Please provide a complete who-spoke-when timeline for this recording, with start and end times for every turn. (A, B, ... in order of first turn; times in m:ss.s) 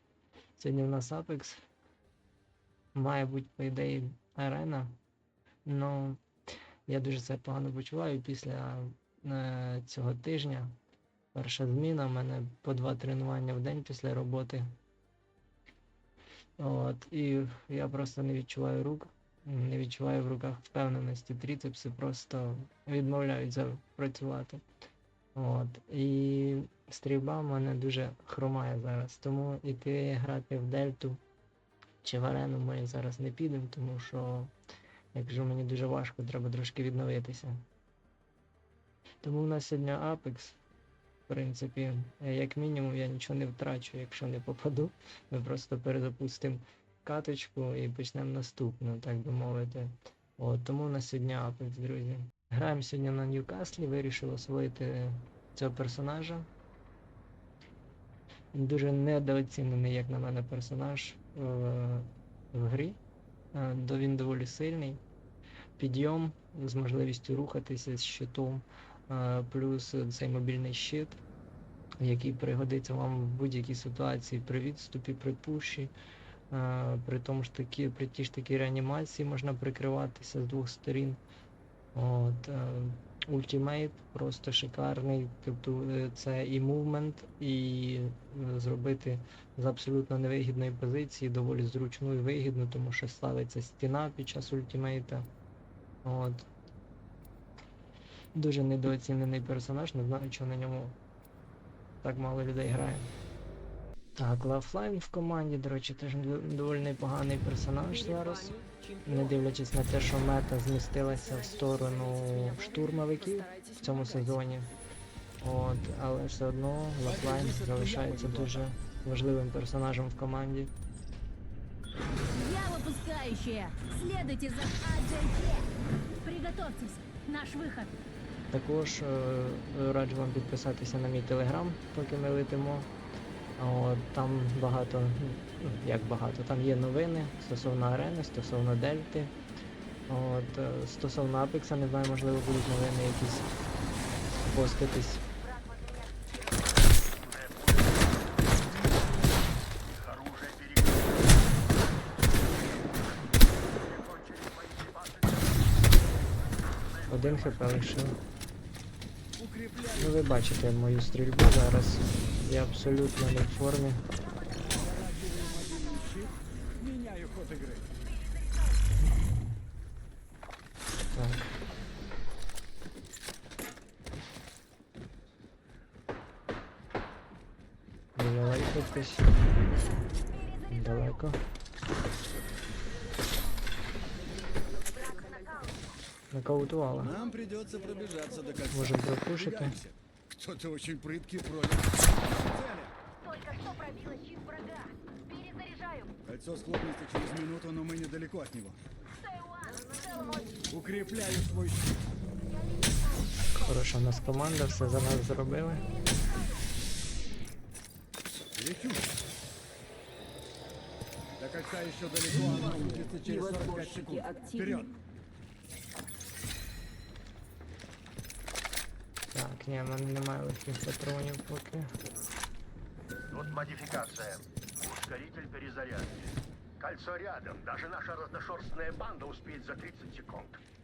0:00.6-0:01.6 A
0:02.9-0:05.0 A
0:05.6-0:06.2 A
0:06.9-0:10.7 A
0:11.3-0:14.7 A
0:16.6-0:24.6 A
0:25.3-0:31.2 A
0:32.0-0:34.5 A
0:35.1-0:37.6 A
0:39.2-0:40.6 A
0:41.3-0:56.5 A
0:58.5-1:03.0 A
1:03.5-1:05.0 A
1:05.8-1:11.2 A
1:12.0-1:15.9 A
1:16.5-1:21.2 A
1:21.9-1:35.3 A
1:36.0-1:36.5 A
1:38.3-1:41.0 A
1:42.0-1:43.1 A
1:44.2-1:54.7 A
1:48.5-1:49.1 B
1:53.5-1:53.8 B
1:55.4-2:00.7 A
1:57.0-1:58.7 C
2:02.4-2:05.4 B
2:06.2-2:07.9 B
2:08.5-2:12.9 A
2:13.6-2:19.3 A
2:20.1-2:23.5 A
2:24.4-2:25.2 A
2:25.3-2:26.9 D
2:27.1-2:28.4 E
2:28.7-2:29.2 C
2:29.9-2:31.8 E
2:33.7-2:35.6 E
2:36.9-2:37.6 E
2:37.1-2:38.2 A
2:39.4-2:40.4 C
2:40.0-2:44.0 A
2:44.2-2:44.9 D
2:44.7-2:47.9 C
2:45.5-2:46.3 D
2:48.0-2:48.8 D
2:51.1-2:51.5 A
2:58.2-2:59.3 A
2:59.7-3:01.2 D
3:00.7-3:01.4 A
3:04.8-3:06.0 D
3:06.3-3:07.2 A
3:07.0-3:12.9 C
3:08.7-3:09.8 A
3:13.2-3:16.1 D
3:16.3-3:18.8 C
3:19.2-3:20.6 D
3:20.7-3:22.0 C
3:22.4-3:26.7 D
3:23.5-3:25.9 A
3:28.5-3:29.1 C
3:31.4-3:34.9 C
3:33.3-3:34.6 B
3:39.3-3:41.9 A
3:43.3-3:50.6 E